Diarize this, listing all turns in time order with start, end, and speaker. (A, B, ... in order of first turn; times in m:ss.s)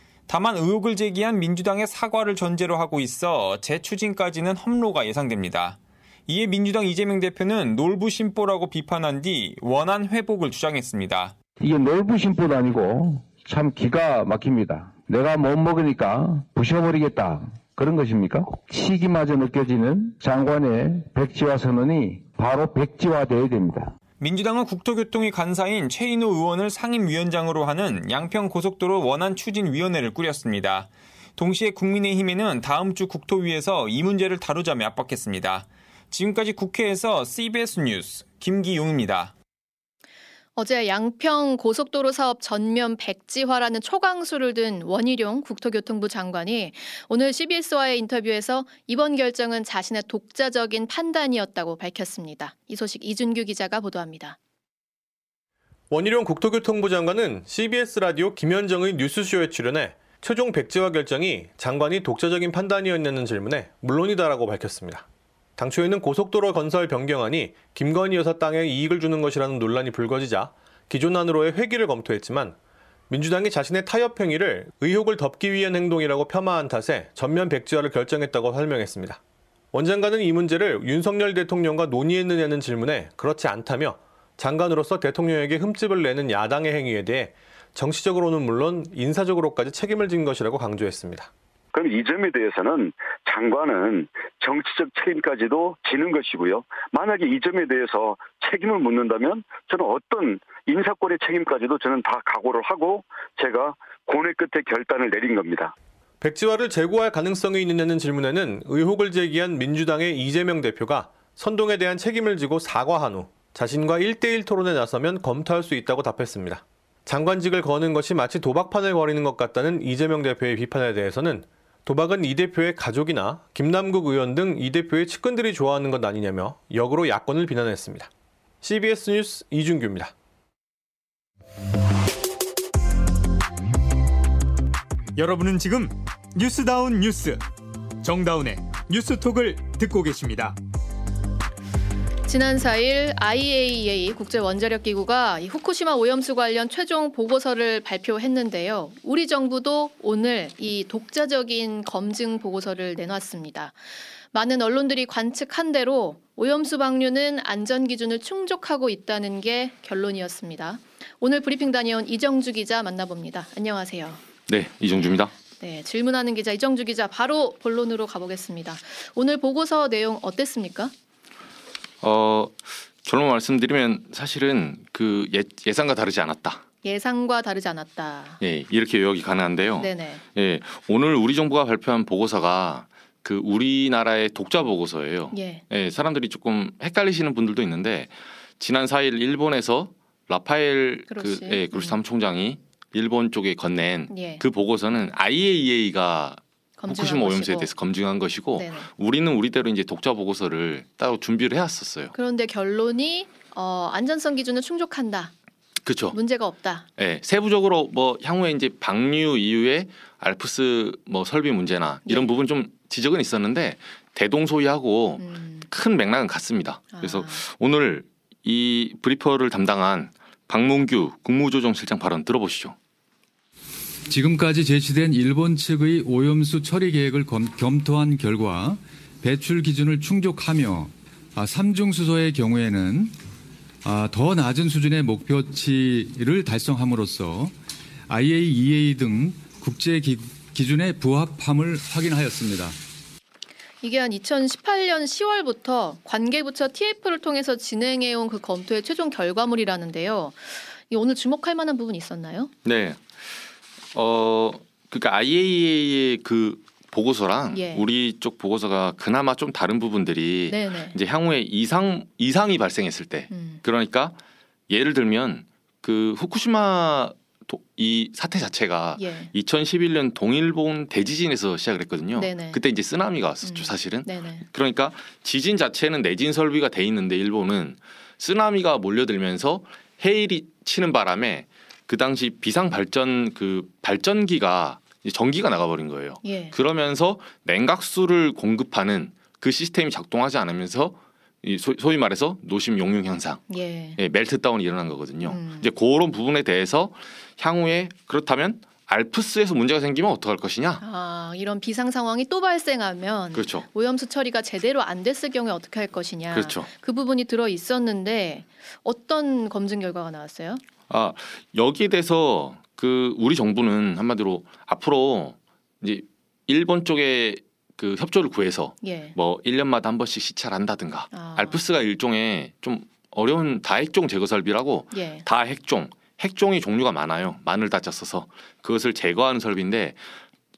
0:00.3-0:11.4 A
0:11.6-0:24.0 B
0:24.2-0:39.3 A
0:40.6-0:54.4 C
0:55.9-1:05.0 D
1:05.6-1:12.6 D
1:13.1-1:19.2 D
1:19.7-1:31.3 D
1:31.7-1:45.7 E
1:46.2-2:08.1 D
2:08.6-2:10.1 D
2:15.2-2:17.4 F
2:18.0-2:20.5 F
2:22.3-2:44.2 C
2:44.5-2:45.3 G
2:45.6-2:50.9 C
2:52.0-2:56.6 G
2:56.8-2:58.4 C
2:58.4-3:22.1 G
2:59.8-3:00.2 C
3:05.3-3:05.6 C
3:11.1-3:12.0 C
3:14.1-3:14.4 C
3:16.8-3:17.7 C
3:18.5-3:18.9 C
3:22.1-3:25.3 C
3:25.8-3:26.2 G
3:26.1-3:26.9 C
3:27.0-3:42.8 G
3:32.0-3:32.3 C
3:35.2-3:35.7 C
3:36.9-3:37.4 C
3:44.1-3:53.1 H
3:53.8-3:57.5 H
3:58.1-4:02.8 H
4:03.8-4:12.5 C
4:12.6-4:13.4 G
4:13.9-4:24.2 G
4:17.5-4:17.8 C
4:20.5-4:21.0 C
4:23.3-4:23.6 C
4:24.7-4:53.4 G
4:29.0-4:29.3 C
4:32.2-4:32.6 C
4:33.4-4:34.4 C
4:46.2-4:46.5 C
4:53.5-4:54.0 C
4:54.0-5:00.8 G
4:55.2-4:55.7 C
5:00.8-5:10.6 C
5:03.3-5:03.7 G
5:06.3-5:06.7 G
5:10.9-5:30.2 G
5:18.8-5:19.1 C
5:21.1-5:21.6 C
5:24.9-5:25.2 C